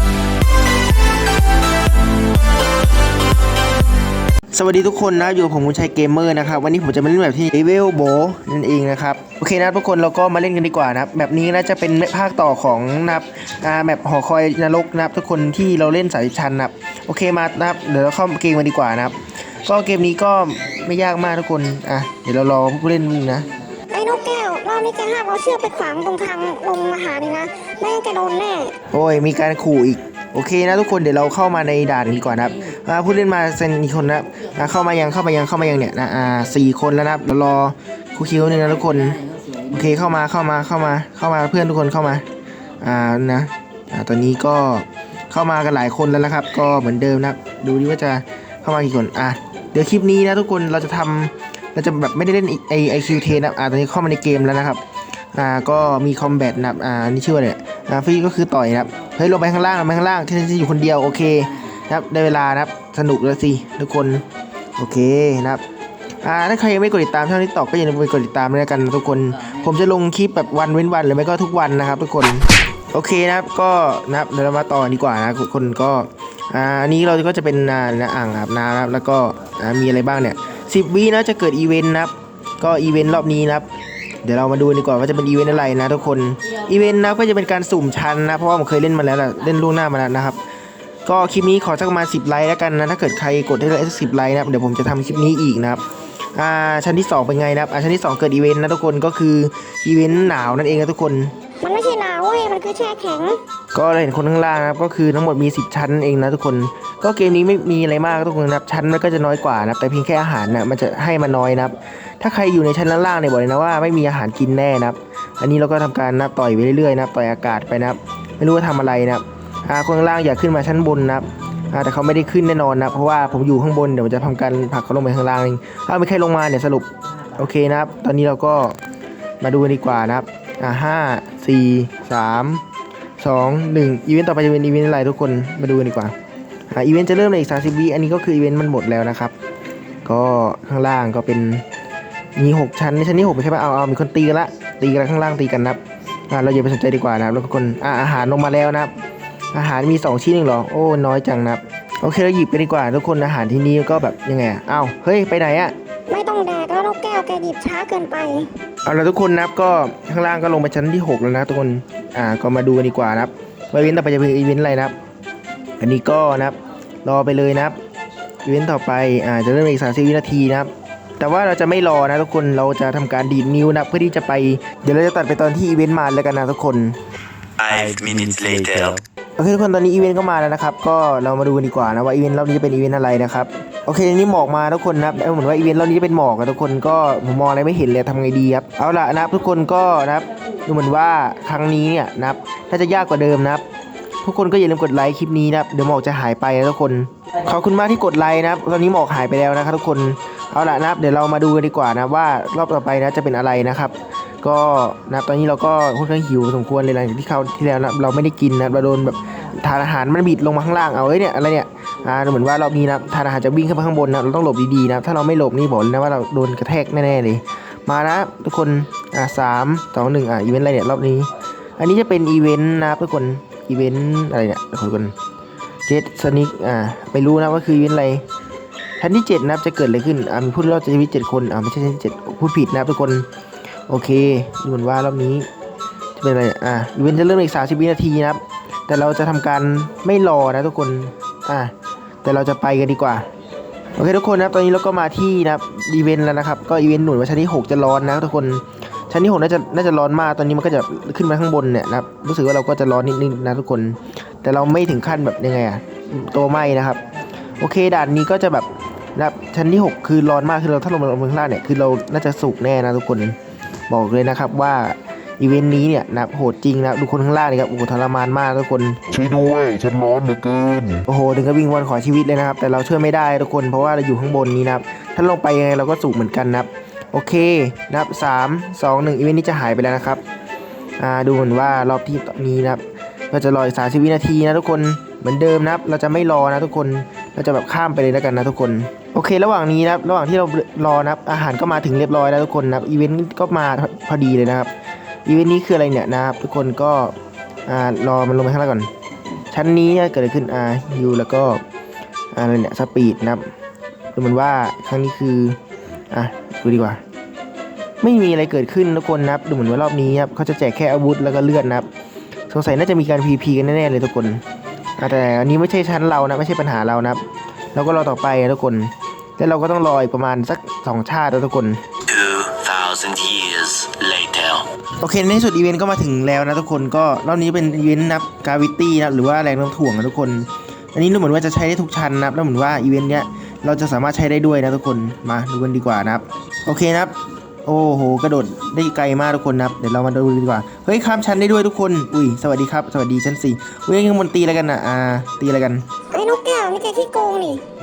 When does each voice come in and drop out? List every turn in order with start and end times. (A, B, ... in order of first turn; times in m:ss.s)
0:04.5-0:23.5 A
0:23.9-0:28.8 B
0:28.9-0:42.2 A
0:42.8-0:54.8 A
0:55.3-1:04.2 A
1:04.8-1:05.6 A
1:06.2-1:23.7 A
1:24.2-1:30.4 A
1:31.0-1:41.3 A
1:41.6-1:43.4 B
1:43.7-2:08.8 A
2:09.4-2:12.6 A
2:13.2-2:16.1 A
2:16.7-2:19.3 A
2:20.0-2:21.6 A
2:22.4-2:28.9 A
2:29.5-2:35.8 A
2:36.1-2:38.5 B
2:38.8-2:44.9 A
2:45.8-2:47.8 A
2:48.4-2:57.0 A
2:57.6-2:59.0 C
2:57.7-2:59.0 D
2:59.4-3:13.6 A
3:14.2-3:45.1 A
3:45.9-3:48.2 A
3:49.0-3:53.3 A
3:53.9-3:55.5 A
3:56.2-4:01.7 A
4:02.2-4:03.3 A
4:04.0-4:17.0 A
4:17.6-4:23.4 A
4:23.9-4:29.0 A
4:29.1-4:31.0 D
4:31.1-4:40.2 A
4:41.0-4:54.7 A
4:55.2-4:57.2 A
4:57.7-4:58.9 A
4:59.5-5:01.6 A
5:02.3-5:03.4 A
5:04.1-5:05.6 A
5:06.1-5:07.0 A
5:08.0-5:11.9 A
5:12.5-5:14.4 A
5:15.0-5:17.2 A
5:17.8-5:21.8 A
5:22.1-5:24.7 C
5:25.0-5:45.9 A
5:46.1-5:47.6 B